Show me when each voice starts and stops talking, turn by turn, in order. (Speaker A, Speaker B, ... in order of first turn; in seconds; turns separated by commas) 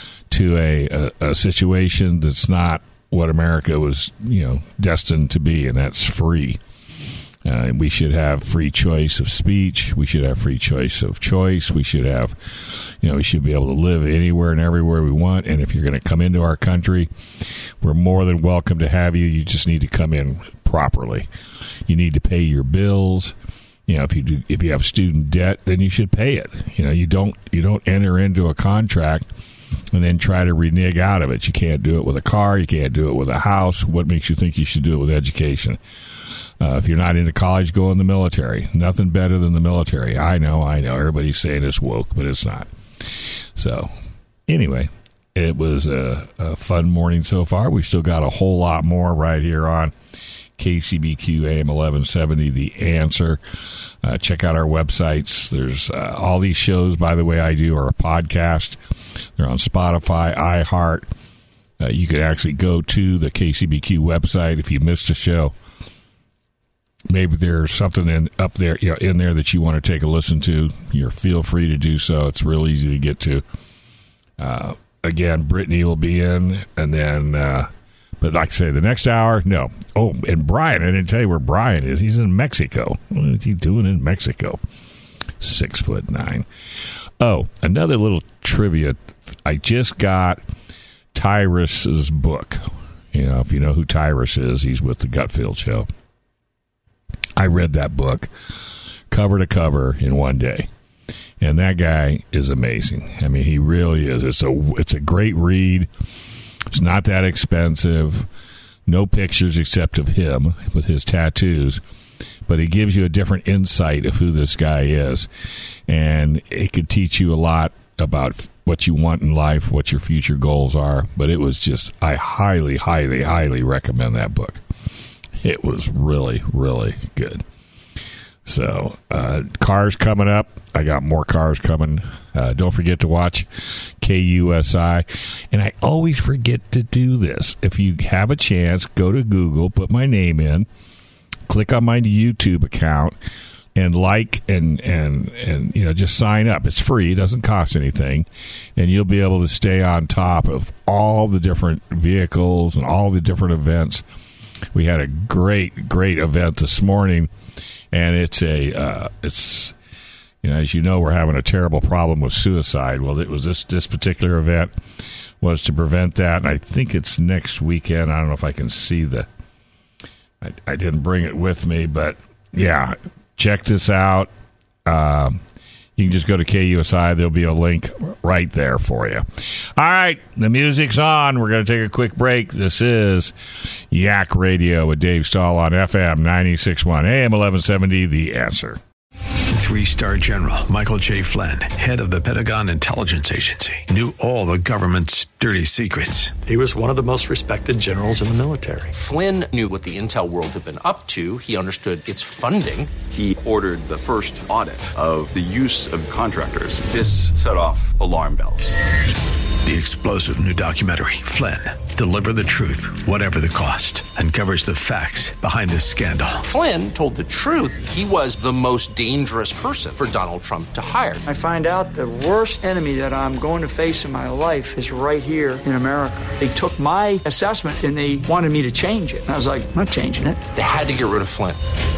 Speaker A: 0.3-6.6, Speaker A: 7.5-17.1, Speaker A: 17.8-21.3, Speaker A: 21.9-23.3, Speaker A: 23.9-29.3, Speaker A: 29.9-35.8, Speaker A: 36.6-42.7, Speaker A: 43.5-43.9, Speaker A: 44.5-49.9, Speaker A: 50.6-53.4, Speaker A: 54.0-58.8, Speaker A: 59.4-61.1, Speaker A: 61.8-65.5, Speaker A: 67.1-73.4, Speaker A: 74.4-84.6, Speaker A: 85.4-86.5, Speaker A: 87.2-90.4, Speaker A: 91.1-95.9, Speaker A: 97.4-98.3, Speaker A: 99.1-100.7, Speaker A: 101.4-105.9, Speaker A: 106.7-108.3, Speaker A: 108.9-111.8, Speaker A: 112.5-115.3, Speaker A: 115.9-124.6, Speaker A: 125.4-127.5, Speaker A: 128.4-140.7, Speaker A: 141.5-143.2, Speaker A: 143.8-154.1, Speaker A: 154.7-157.3, Speaker A: 157.9-159.7, Speaker A: 160.4-164.7, Speaker A: 165.4-169.3, Speaker A: 170.4-174.3, Speaker A: 174.8-175.4, Speaker A: 176.0-179.2, Speaker A: 179.8-183.3, Speaker A: 183.9-188.8, Speaker B: 189.5-196.4, Speaker C: 196.4-198.9, Speaker D: 198.9-202.9, Speaker E: 203.1-208.8, Speaker B: 209.6-216.4, Speaker D: 216.4-221.2, Speaker F: 221.3-230.4, Speaker D: 230.6-231.6